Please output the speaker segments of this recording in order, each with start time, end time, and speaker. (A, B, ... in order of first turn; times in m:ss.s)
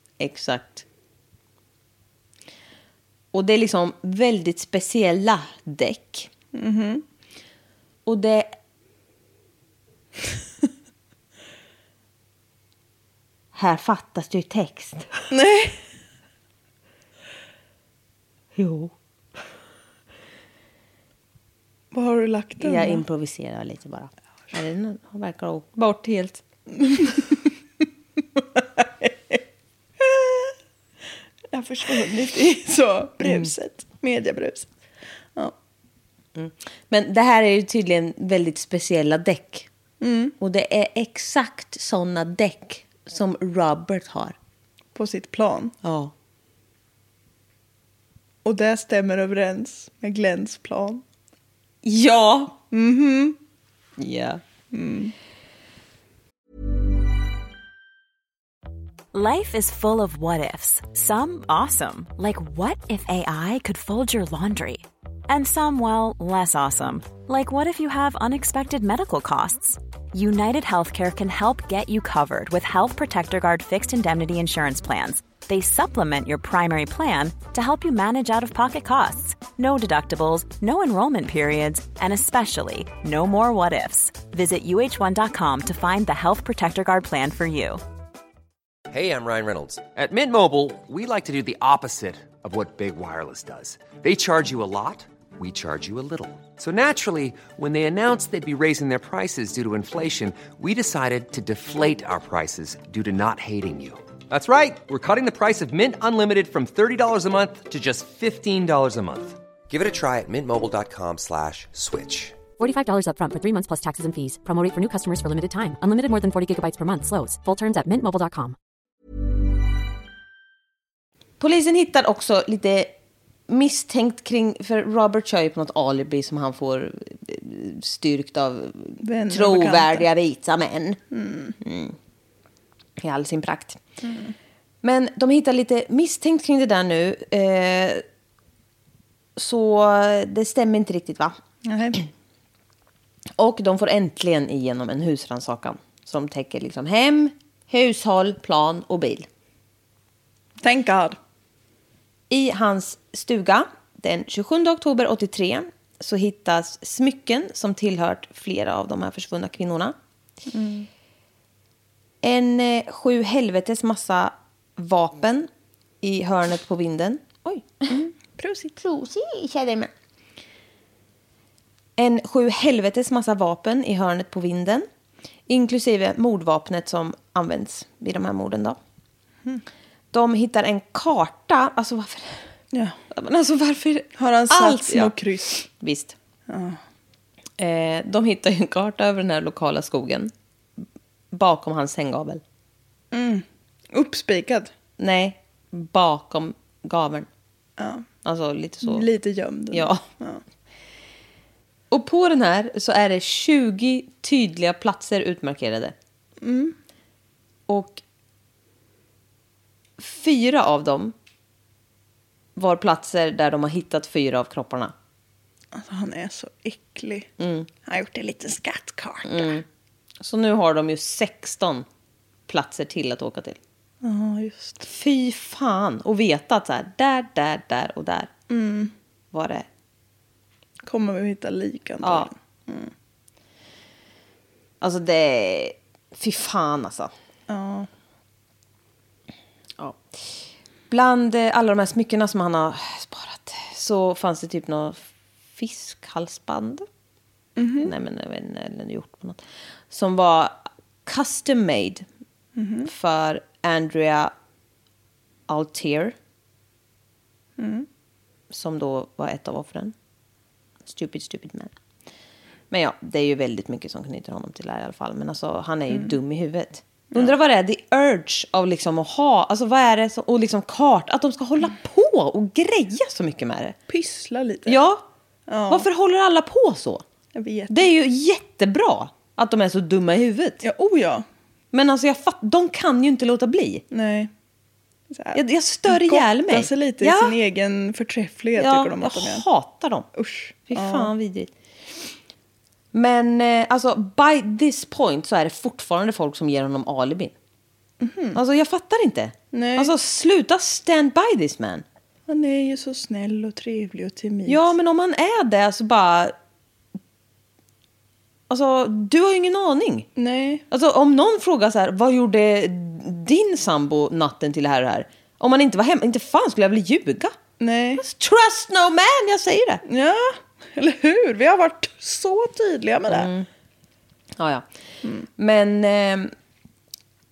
0:00.2-0:00.8 A
0:03.3-0:06.3 A
0:06.5-0:07.0 B
0:08.0-0:08.5 A
0:13.5-0:15.1 A
0:15.3-0:15.8 B
0:18.5-0:18.9 A
0:21.9-0:23.0 B
0:22.6-0:26.4 A
0:26.8-0:27.3 B
0:28.4-0:29.4 B
0:30.0-0:30.5 B
0:31.5-0:34.7 B
0:33.2-0:33.5 A
0:36.3-0:39.7 A
0:40.0-0:40.3 B
0:40.4-0:44.4 A
0:44.9-0:45.7 B
0:45.8-0:46.1 A
0:48.4-0:51.0 B
0:51.8-0:52.6 A
0:52.7-0:53.4 B
0:54.0-0:54.4 A
0:54.7-0:55.1 B
0:59.1-1:27.8 C
1:28.9-1:52.4 D
1:52.6-1:58.6 E
2:01.4-2:02.9 A
2:03.5-2:11.0 A
2:09.0-2:10.0 B
2:11.1-2:11.6 B
2:11.6-2:12.0 A
2:13.0-2:13.8 A
2:14.0-2:14.3 B
2:14.8-2:18.0 A
2:19.4-2:21.4 A
2:21.6-2:22.0 B
2:23.4-2:29.3 A
2:30.6-2:31.2 B
2:32.3-2:39.9 A
2:40.5-2:40.9 B
2:42.2-2:45.5 A
2:46.0-2:48.0 A
2:47.9-2:48.8 B
2:48.8-2:49.9 A
2:52.0-2:54.9 A
2:55.5-2:58.8 A
3:00.1-3:02.5 A
3:02.7-3:03.0 B
3:03.1-3:06.1 A
3:04.2-3:05.6 B
3:06.5-3:06.8 B
3:07.6-3:10.3 A
3:11.3-3:12.4 A
3:13.1-3:14.7 B
3:15.0-3:17.3 A
3:17.8-3:18.1 B
3:18.2-3:19.1 A
3:18.8-3:20.4 B
3:19.7-3:20.0 A
3:21.9-3:25.9 A
3:26.4-3:26.8 B
3:27.7-3:28.0 A
3:30.0-3:31.1 A
3:32.6-3:34.9 A
3:35.7-3:37.3 B
3:37.4-3:37.7 A
3:37.8-3:39.6 B
3:39.2-3:39.6 A
3:40.2-3:41.8 A
3:42.5-3:43.6 A
3:44.0-3:44.9 B
3:44.8-3:48.3 A
3:48.5-3:48.9 B
3:49.3-3:49.7 A
3:50.9-3:52.9 B
3:52.0-3:52.3 A
3:54.8-3:57.1 A
3:57.5-3:57.9 B
4:00.9-4:06.8 A
4:07.6-4:07.9 B
4:07.8-4:12.0 A
4:12.6-4:12.9 B
4:12.8-4:14.3 A
4:15.5-4:16.2 A
4:17.6-4:17.9 B
4:18.5-4:19.9 A
4:20.8-4:21.7 A
4:22.7-4:33.8 A
4:33.9-4:34.8 B
4:34.6-4:35.0 A
4:35.5-4:35.8 B
4:35.7-4:37.0 A
4:37.3-4:37.9 B
4:37.7-4:40.6 A
4:40.6-4:41.2 B
4:41.7-4:43.8 A
4:43.9-4:44.3 B
4:45.1-4:49.4 B
4:45.3-4:47.4 A
4:48.6-4:50.1 A
4:50.2-4:51.1 B
4:50.7-4:51.5 A
4:52.9-4:57.3 A
4:58.0-4:58.4 B
4:58.3-5:01.8 A
4:59.5-4:59.9 B
5:02.3-5:04.7 B
5:04.4-5:06.3 A
5:08.5-5:10.1 A
5:10.2-5:10.6 B
5:10.7-5:17.4 A
5:17.6-5:18.0 B
5:18.0-5:19.8 A
5:19.9-5:23.3 B
5:23.1-5:23.5 A
5:24.4-5:24.6 A
5:25.4-5:26.3 A